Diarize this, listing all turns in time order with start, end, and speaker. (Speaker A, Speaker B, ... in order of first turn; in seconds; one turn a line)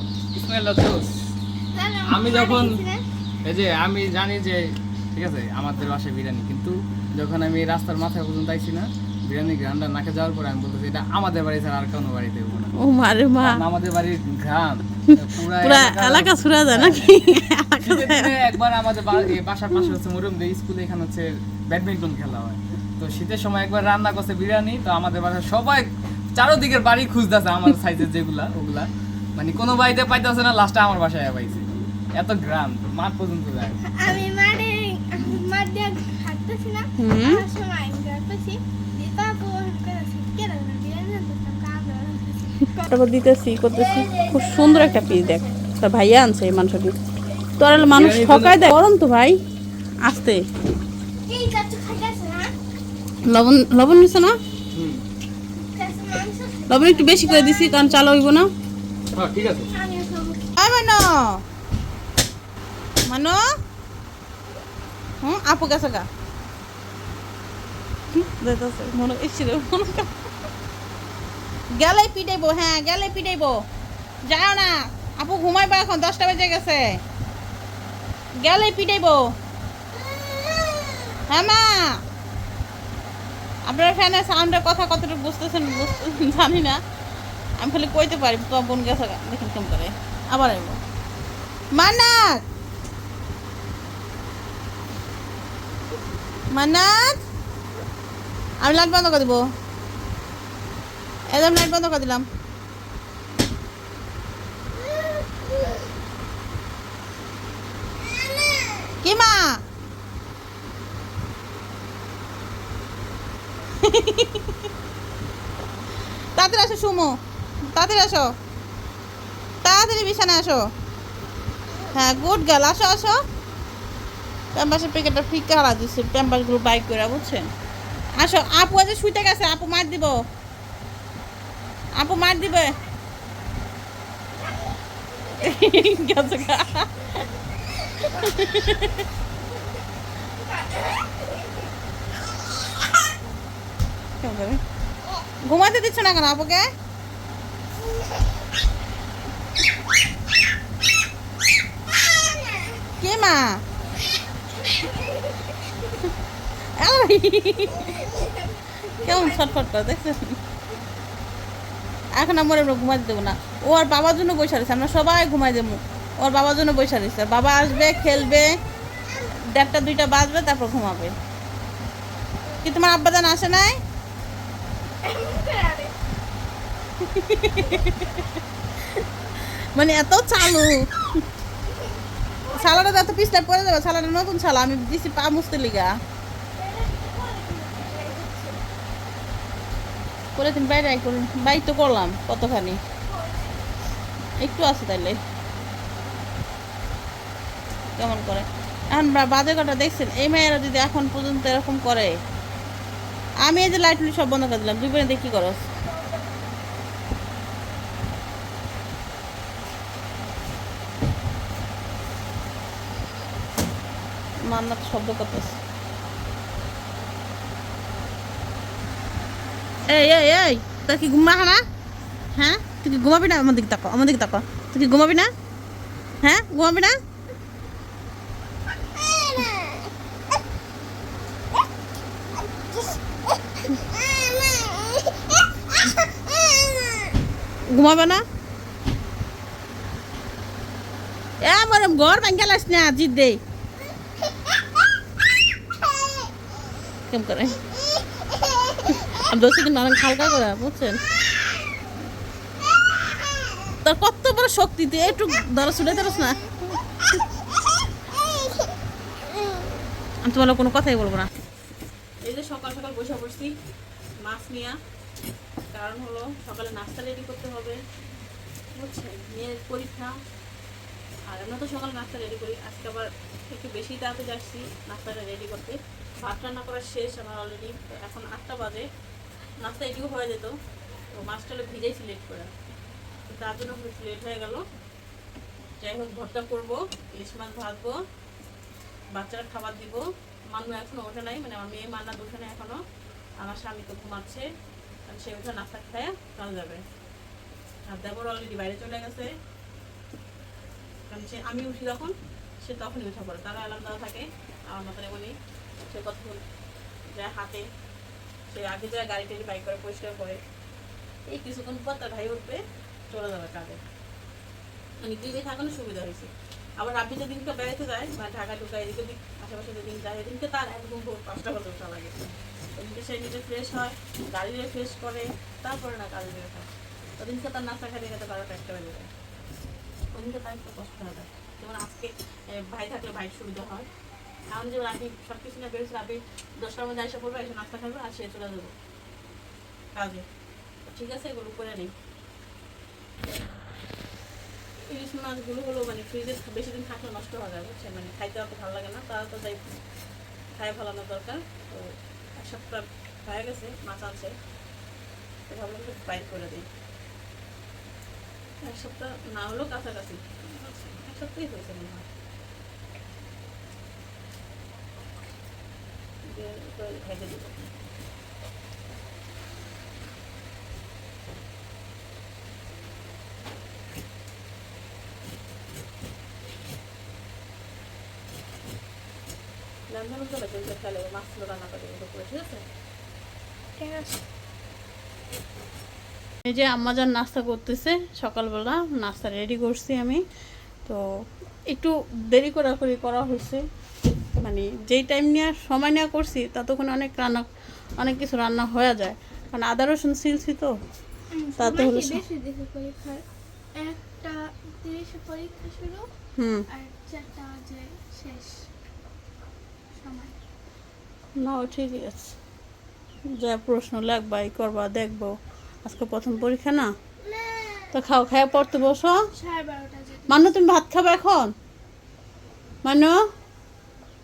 Speaker A: 0.4-1.2
Speaker B: 1.7-3.0
Speaker A: 2.1-2.8
Speaker A: 3.5-12.7
Speaker C: 12.8-13.6
Speaker A: 13.4-17.2
Speaker C: 15.1-18.4
Speaker A: 17.9-25.9
Speaker A: 26.4-33.8
Speaker B: 33.8-42.9
Speaker C: 37.0-37.5
Speaker C: 42.9-46.9
Speaker B: 43.7-45.6
Speaker C: 47.6-49.4
Speaker A: 47.9-48.7
Speaker C: 50.0-50.4
Speaker B: 51.3-52.5
Speaker C: 53.3-54.4
Speaker A: 54.8-55.0
Speaker B: 55.6-58.0
Speaker C: 56.7-58.5
Speaker A: 59.2-59.7
Speaker B: 59.6-60.4
Speaker C: 60.6-61.4
Speaker C: 63.1-63.4
Speaker C: 65.2-66.1
Speaker C: 68.1-70.1
Speaker C: 71.8-73.5
Speaker C: 74.3-76.8
Speaker C: 78.4-79.2
Speaker C: 81.3-82.0
Speaker C: 83.7-86.8
Speaker C: 87.6-90.8
Speaker C: 91.7-92.4
Speaker C: 96.5-97.2
Speaker C: 98.6-99.4
Speaker C: 101.3-102.2
Speaker C: 109.0-109.4
Speaker C: 113.8-114.7
Speaker C: 116.4-117.1
Speaker C: 117.7-118.3
Speaker C: 119.6-120.6
Speaker C: 121.9-123.2
Speaker C: 124.5-127.5
Speaker C: 128.2-130.2
Speaker C: 132.0-132.7
Speaker C: 135.4-137.1
Speaker C: 138.1-139.1
Speaker C: 144.2-144.6
Speaker C: 145.4-146.6
Speaker C: 153.0-153.5
Speaker B: 154.6-155.5
Speaker C: 156.8-158.1
Speaker B: 157.8-159.5
Speaker C: 159.0-160.4
Speaker C: 162.1-168.5
Speaker C: 169.5-171.2
Speaker C: 172.6-173.8
Speaker B: 175.0-175.9
Speaker C: 177.0-178.3
Speaker C: 178.8-180.8
Speaker B: 182.4-183.0
Speaker C: 182.5-185.9
Speaker B: 186.6-188.6
Speaker C: 190.4-192.8
Speaker B: 193.1-193.6
Speaker C: 194.4-195.2
Speaker C: 198.0-202.2
Speaker C: 203.4-205.6
Speaker C: 214.5-215.6
Speaker C: 219.9-221.6
Speaker C: 222.4-225.3
Speaker C: 226.2-226.9
Speaker C: 237.7-238.2
Speaker C: 241.4-243.4
Speaker C: 247.1-247.6
Speaker C: 248.9-251.0
Speaker C: 253.8-256.4
Speaker C: 260.2-261.3
Speaker C: 262.2-263.5
Speaker C: 264.2-264.8
Speaker C: 265.7-267.8
Speaker C: 268.8-270.1
Speaker C: 271.3-278.9
Speaker C: 279.6-280.5
Speaker C: 281.2-282.5
Speaker C: 283.3-284.6
Speaker C: 285.8-287.9
Speaker C: 289.1-292.8
Speaker C: 293.4-294.5
Speaker C: 295.1-296.8
Speaker C: 297.9-299.3
Speaker C: 301.1-305.3
Speaker C: 305.9-306.4
Speaker C: 307.2-307.6
Speaker C: 308.5-310.4
Speaker C: 311.3-313.8
Speaker C: 315.0-326.7
Speaker C: 327.2-329.1
Speaker C: 330.1-333.9
Speaker C: 334.5-338.7
Speaker C: 339.9-340.2
Speaker C: 340.9-341.9
Speaker C: 344.9-349.6
Speaker C: 350.6-354.3
Speaker C: 355.5-356.7
Speaker C: 358.6-362.0
Speaker C: 366.3-367.7
Speaker C: 379.9-382.6
Speaker B: 383.8-384.2
Speaker C: 386.5-390.2
Speaker C: 391.7-393.6
Speaker C: 394.4-397.4
Speaker C: 398.0-400.7
Speaker B: 401.4-403.2
Speaker C: 401.6-402.2
Speaker B: 403.8-406.1
Speaker C: 406.4-406.7
Speaker B: 406.7-408.7
Speaker B: 410.0-410.4
Speaker C: 411.4-412.4
Speaker C: 413.4-416.9
Speaker B: 417.4-417.8
Speaker C: 417.9-419.2
Speaker B: 419.3-420.5
Speaker C: 420.3-421.5
Speaker C: 422.8-423.1